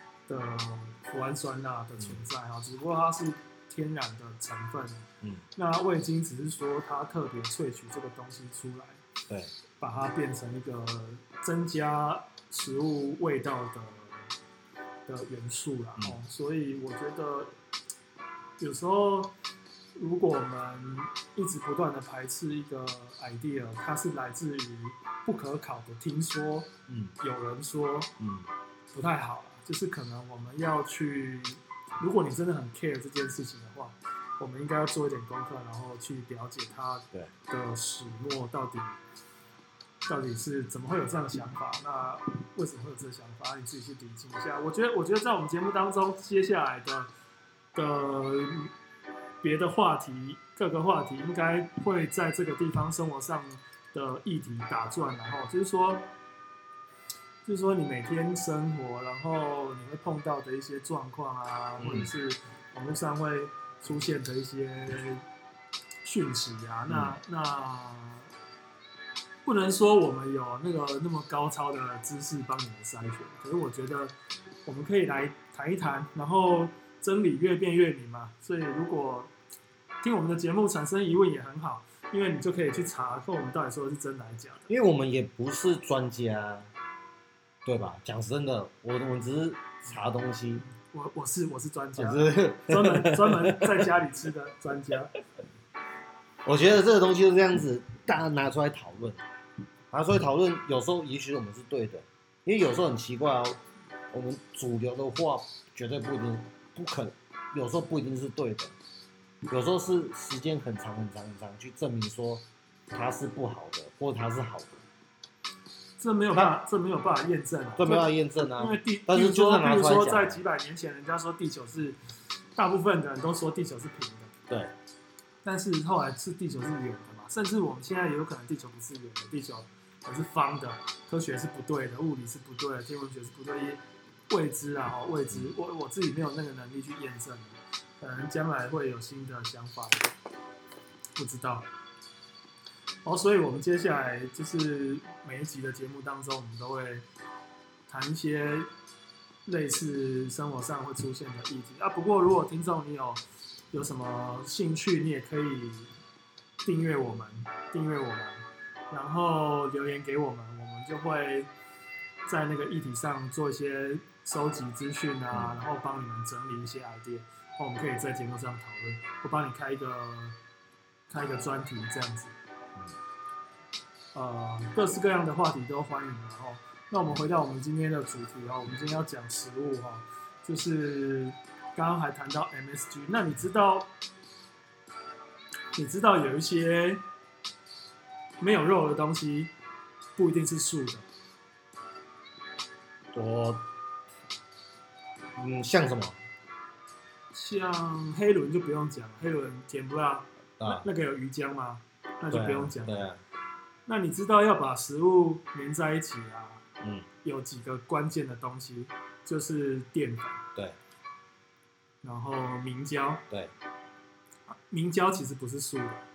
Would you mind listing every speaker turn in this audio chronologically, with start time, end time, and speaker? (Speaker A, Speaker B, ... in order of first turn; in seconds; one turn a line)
Speaker A: 0.3-9.0
Speaker A: 9.8-14.2
Speaker A: 15.1-17.5
Speaker A: 18.6-19.3
Speaker A: 19.9-28.1
Speaker B: 26.9-27.1
Speaker B: 28.2-28.5
Speaker A: 28.9-39.0
Speaker A: 40.0-47.1
Speaker A: 47.7-48.7
Speaker A: 49.4-56.1
Speaker A: 57.4-65.2
Speaker B: 61.8-62.1
Speaker A: 66.0-68.3
Speaker B: 66.9-67.2
Speaker A: 69.4-74.1
Speaker A: 74.7-79.3
Speaker A: 80.0-84.7
Speaker B: 84.7-86.7
Speaker B: 87.6-90.6
Speaker A: 90.6-95.1
Speaker B: 92.0-93.8
Speaker B: 96.4-99.2
Speaker B: 99.9-108.7
Speaker B: 109.5-114.8
Speaker A: 116.0-122.0
Speaker B: 117.8-120.4
Speaker A: 122.5-124.3
Speaker B: 124.5-124.7
Speaker A: 125.4-140.1
Speaker A: 141.2-141.7
Speaker A: 143.0-147.1
Speaker A: 147.9-148.7
Speaker A: 149.4-155.9
Speaker A: 156.6-161.5
Speaker A: 162.2-170.4
Speaker B: 165.3-165.6
Speaker A: 171.1-172.3
Speaker A: 174.1-183.9
Speaker A: 185.7-187.0
Speaker A: 188.4-189.5
Speaker A: 190.2-191.0
Speaker B: 193.1-193.6
Speaker B: 195.3-196.2
Speaker A: 197.3-203.1
Speaker B: 200.6-200.8
Speaker B: 202.3-203.2
Speaker A: 203.8-206.6
Speaker B: 206.8-207.1
Speaker A: 207.2-210.4
Speaker A: 212.0-213.2
Speaker A: 214.7-216.1